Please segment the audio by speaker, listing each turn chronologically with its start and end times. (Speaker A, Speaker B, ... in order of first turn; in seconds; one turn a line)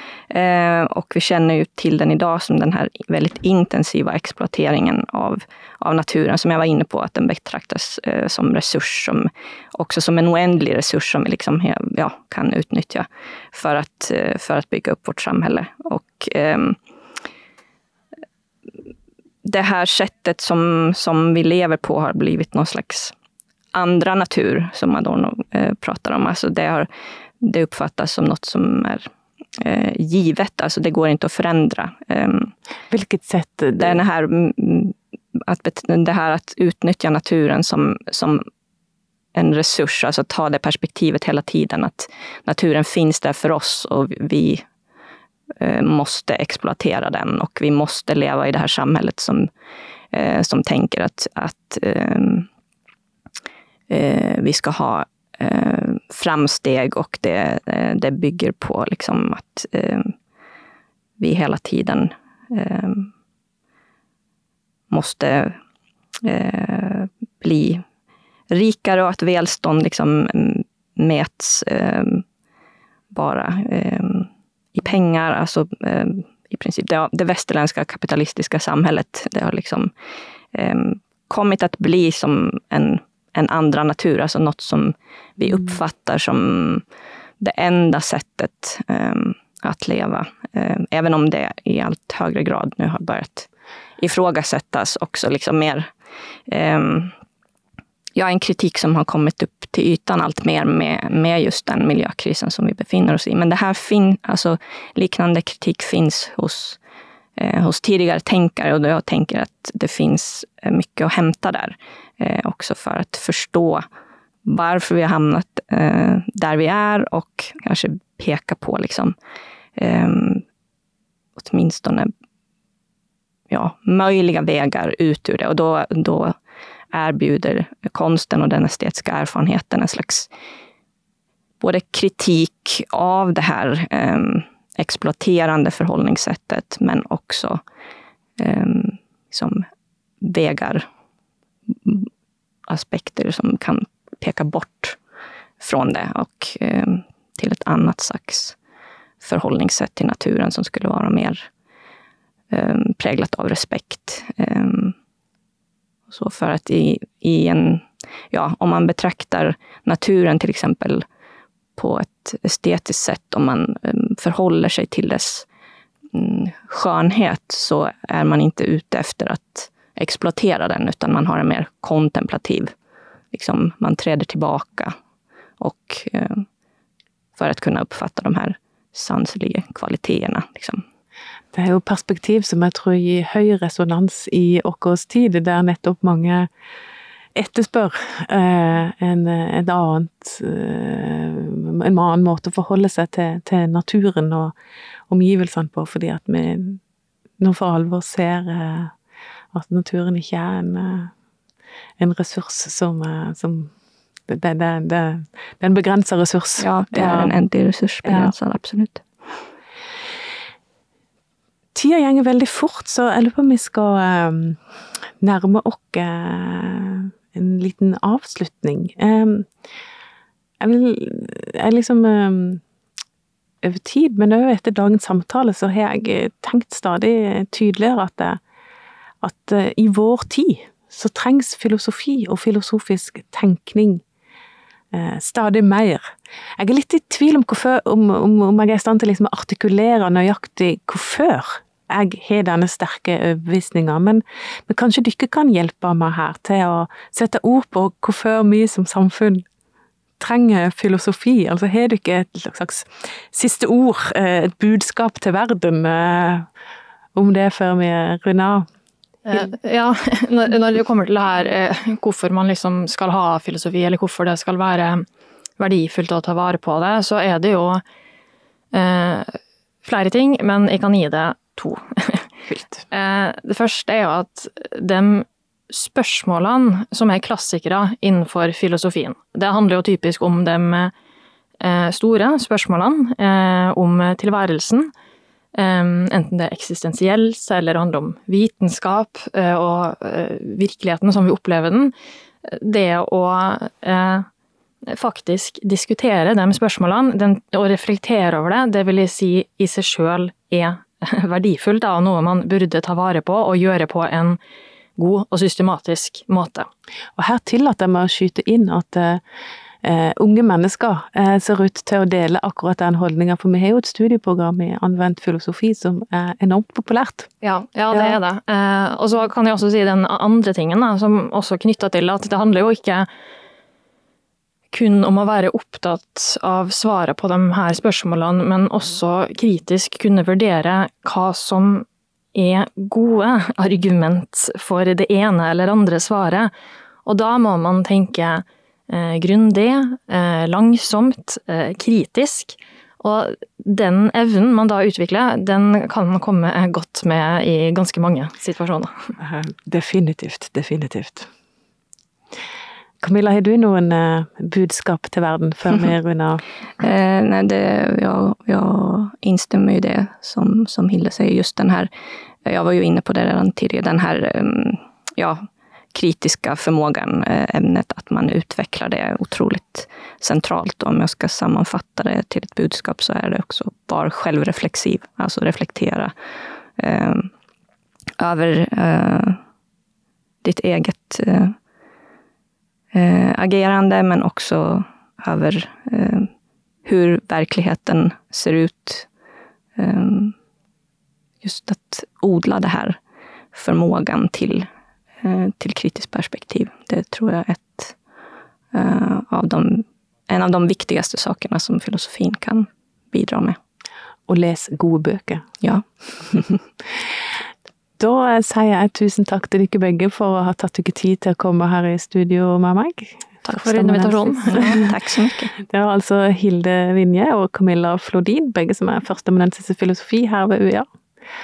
Speaker A: 0.3-16.8
Speaker A: 19.4-23.1
Speaker A: 23.7-26.9
Speaker A: 27.4-32.5
Speaker B: 32.9-34.0
Speaker A: 33.8-38.5
Speaker A: 39.4-44.6
Speaker A: 45.6-49.5
Speaker A: 50.1-52.5
Speaker A: 53.9-60.1
Speaker A: 61.2-63.1
Speaker A: 64.9-65.6
Speaker A: 66.2-67.8
Speaker A: 68.5-72.2
Speaker A: 73.1-79.9
Speaker A: 80.5-86.8
Speaker A: 87.4-95.9
Speaker A: 96.5-97.1
Speaker A: 98.2-106.8
Speaker A: 107.4-113.8
Speaker A: 114.5-119.2
Speaker A: 119.8-120.4
Speaker A: 121.4-122.1
Speaker A: 123.5-126.4
Speaker A: 126.9-130.3
Speaker A: 131.6-137.6
Speaker A: 138.4-139.7
Speaker A: 140.2-140.9
Speaker A: 141.7-142.1
Speaker A: 142.7-145.0
Speaker A: 145.6-148.6
Speaker A: 149.2-151.5
Speaker A: 152.5-154.9
Speaker A: 156.1-161.1
Speaker A: 161.8-165.5
Speaker A: 166.1-172.7
Speaker A: 173.3-175.0
Speaker A: 175.6-176.5
Speaker A: 177.4-180.8
Speaker B: 181.5-186.5
Speaker B: 187.3-194.5
Speaker B: 195.1-196.8
Speaker B: 197.4-198.9
Speaker B: 199.5-201.1
Speaker B: 202.0-203.7
Speaker B: 204.3-207.3
Speaker A: 206.6-209.0
Speaker B: 208.1-208.3
Speaker B: 211.8-214.6
Speaker B: 215.2-219.5
Speaker B: 220.6-222.6
Speaker B: 223.6-228.4
Speaker B: 229.2-234.0
Speaker B: 234.9-249.4
Speaker B: 250.2-256.5
Speaker B: 257.1-258.7
Speaker C: 259.3-265.1
Speaker C: 265.6-267.8
Speaker C: 268.7-272.3
Speaker B: 272.5-272.8
Speaker C: 272.9-280.9
Speaker C: 281.6-284.9
Speaker C: 285.6-291.9
Speaker C: 292.4-294.3
Speaker C: 294.9-304.4
Speaker C: 305.0-306.7
Speaker B: 307.2-309.2
Speaker B: 309.8-317.3
Speaker C: 317.4-323.1
Speaker B: 317.9-318.2
Speaker C: 324.7-336.5
Speaker C: 337.1-349.1
Speaker B: 349.2-351.3
Speaker B: 353.0-356.4
Speaker A: 356.8-361.9
Speaker A: 362.5-376.1
Speaker A: 376.8-377.3
Speaker A: 378.2-379.4
Speaker A: 380.4-381.6
Speaker A: 382.9-386.3
Speaker A: 386.9-389.1
Speaker A: 389.8-390.4
Speaker A: 391.4-393.0
Speaker A: 393.5-394.7
Speaker A: 395.2-397.9
Speaker A: 398.7-403.6
Speaker B: 404.3-405.5
Speaker A: 405.6-406.6
Speaker B: 408.0-414.9
Speaker C: 413.5-414.9
Speaker A: 414.5-415.6
Speaker B: 415.6-420.9